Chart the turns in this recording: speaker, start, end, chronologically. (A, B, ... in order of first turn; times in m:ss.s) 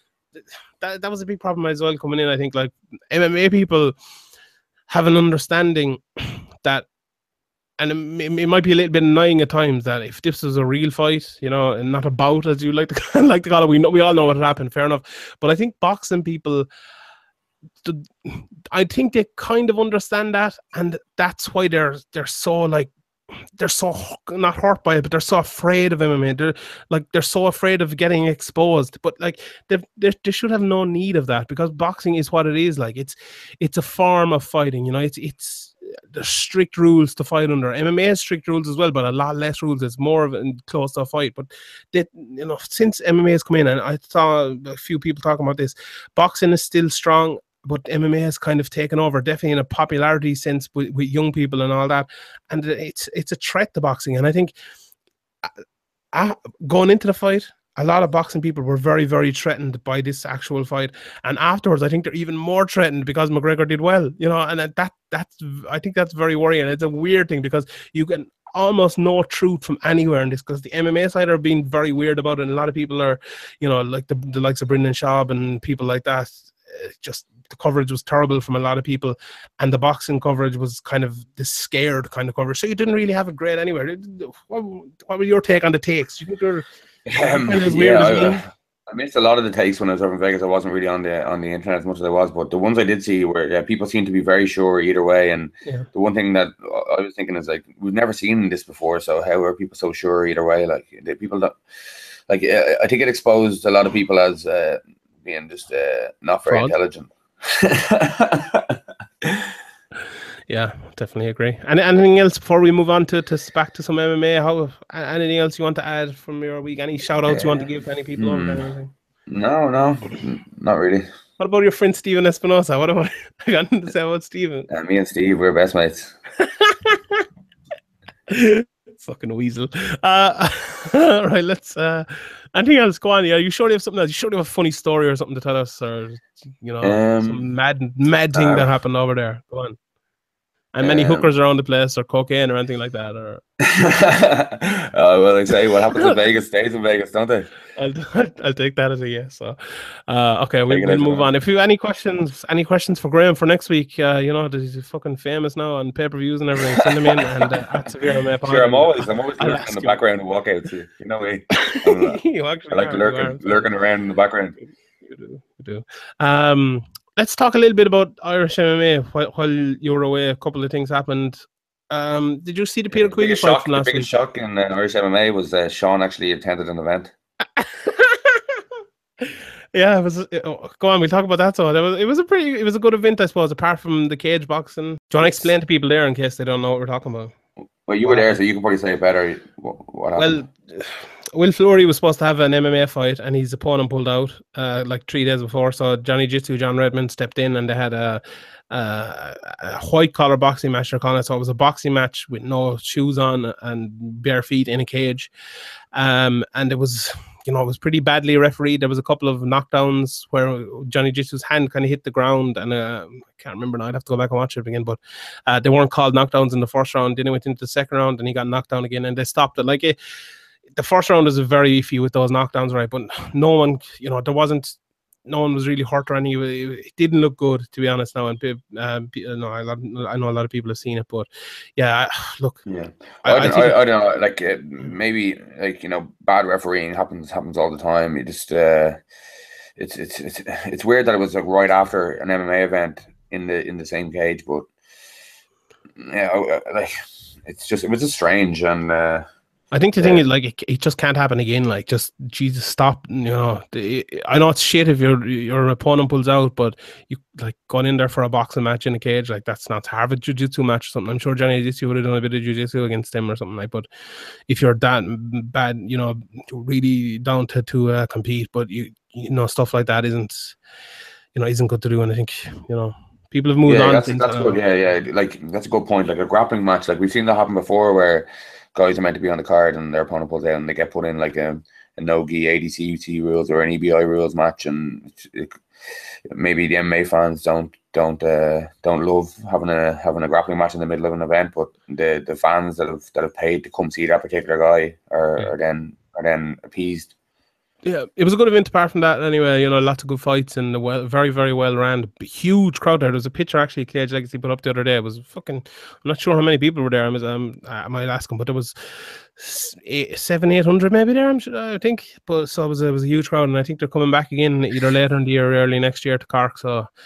0:00.4-0:03.9 A
0:04.9-0:06.9 A
0:07.8-0:16.7 A
0:17.8-0:22.9 A
0:23.6-0:54.5 A
0:56.1-1:28.4 A
1:27.1-1:41.6 B
1:42.3-1:49.5 B
1:46.5-1:46.7 A
1:50.5-1:58.9 A
1:57.3-1:57.6 B
1:58.2-1:58.6 B
1:59.3-2:01.1 B
2:01.4-2:04.7 A
2:04.7-2:06.2 B
2:06.4-2:07.2 A
2:08.3-2:19.8 A
2:16.8-2:17.4 B
2:18.3-2:18.6 B
2:20.7-2:23.4 A
2:20.8-2:21.3 B
2:23.6-2:27.5 B
2:27.8-2:40.0 A
2:30.7-2:31.3 B
2:38.4-2:44.6 B
2:41.5-2:43.7 A
2:44.6-2:54.1 A
2:52.9-2:57.1 B
2:57.6-2:58.6 A
2:59.2-3:07.3 A
3:07.9-3:10.4 B
3:08.0-3:08.4 A
3:10.2-3:25.3 A
3:25.9-3:40.0 A
3:40.8-3:52.6 A
3:52.6-3:59.0 B
3:53.2-3:53.8 A
3:59.8-4:04.7 B
4:06.0-4:06.9 B
4:07.4-4:09.3 B
4:09.7-4:23.9 A
4:24.5-4:30.6 A
4:31.3-4:34.6 A
4:33.6-4:45.6 B
4:46.3-4:57.1 B
4:57.8-5:16.9 A